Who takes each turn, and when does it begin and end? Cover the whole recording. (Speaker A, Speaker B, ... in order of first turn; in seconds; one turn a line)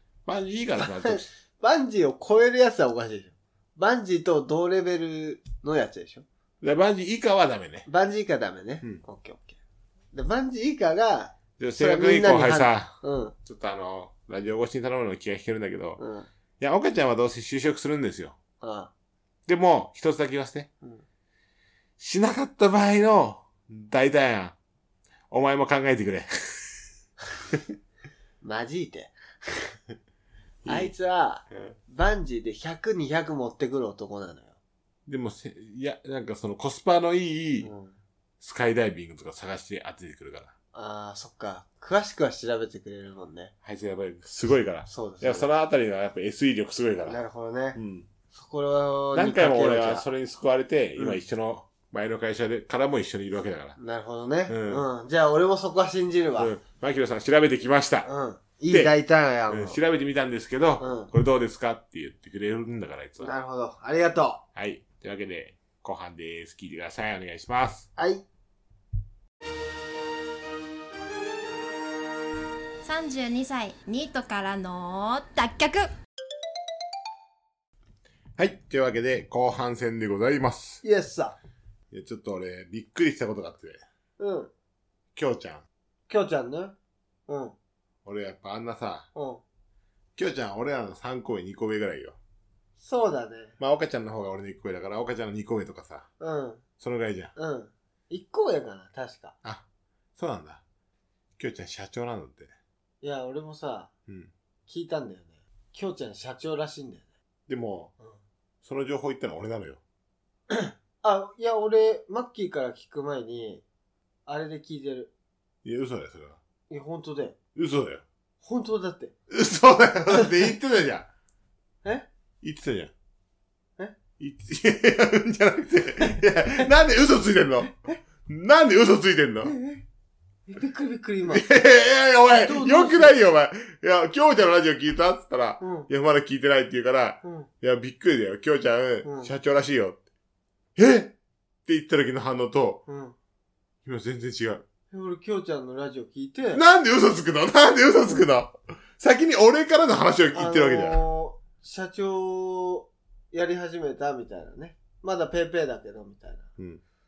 Speaker A: 0.2-1.3
Speaker B: 0.8-6.2
Speaker A: 6.6-7.9
Speaker B: 7.9-9.6
Speaker B: 10.1-13.3
Speaker A: 11.6-16.0
Speaker B: 16.0-16.3
Speaker A: 16.6-18.4
Speaker B: 18.6-18.9
Speaker A: 19.4-20.7
Speaker A: 22.0-24.6
Speaker A: 25.3-26.9
Speaker B: 28.4-29.7
Speaker A: 30.6-30.9
Speaker B: 30.6-34.5
Speaker A: 35.0-37.7
Speaker B: 37.6-38.0
Speaker A: 38.4-40.5
Speaker B: 40.7-43.5
Speaker A: 43.6-47.2
Speaker B: 44.9-45.5
Speaker B: 47.1-47.8
Speaker A: 47.7-48.1
Speaker B: 48.3-50.0
Speaker A: 49.1-53.8
Speaker B: 53.8-56.5
Speaker A: 54.5-54.8
Speaker A: 56.4-58.1
Speaker B: 58.0-59.8
Speaker A: 58.7-58.9
Speaker A: 59.5-63.3
Speaker B: 60.8-61.1
Speaker B: 63.2-64.4
Speaker A: 64.5-67.9
Speaker B: 68.0-68.2
Speaker C: 72.8-75.9
Speaker A: 78.4-80.8
Speaker B: 80.8-81.4
Speaker A: 81.9-83.8
Speaker B: 84.2-84.5
Speaker A: 85.1-85.6
Speaker B: 86.1-86.7
Speaker B: 87.3-87.5
Speaker A: 88.0-89.1
Speaker B: 89.1-89.4
Speaker A: 90.2-92.2
Speaker B: 92.8-93.5
Speaker A: 93.6-96.1
Speaker B: 96.2-96.6
Speaker A: 96.8-97.3
Speaker B: 97.3-99.3
Speaker A: 100.2-100.6
Speaker A: 101.4-102.5
Speaker B: 103.0-103.9
Speaker B: 104.7-107.1
Speaker A: 107.5-107.9
Speaker A: 108.6-109.8
Speaker B: 110.5-113.6
Speaker B: 114.2-115.1
Speaker A: 115.6-116.4
Speaker B: 116.7-117.3
Speaker A: 117.5-118.0
Speaker B: 118.4-119.1
Speaker A: 119.3-121.1
Speaker A: 122.4-122.9
Speaker A: 124.2-127.7
Speaker A: 128.2-129.5
Speaker B: 129.4-129.8
Speaker B: 130.5-131.5
Speaker A: 131.3-140.0
Speaker B: 132.4-133.1
Speaker B: 135.6-135.9
Speaker B: 137.2-137.5
Speaker B: 139.0-139.3
Speaker A: 140.8-141.1
Speaker A: 141.7-142.8
Speaker B: 142.9-143.1
Speaker A: 143.8-144.6
Speaker B: 144.9-146.6
Speaker A: 146.5-151.0
Speaker B: 150.3-156.5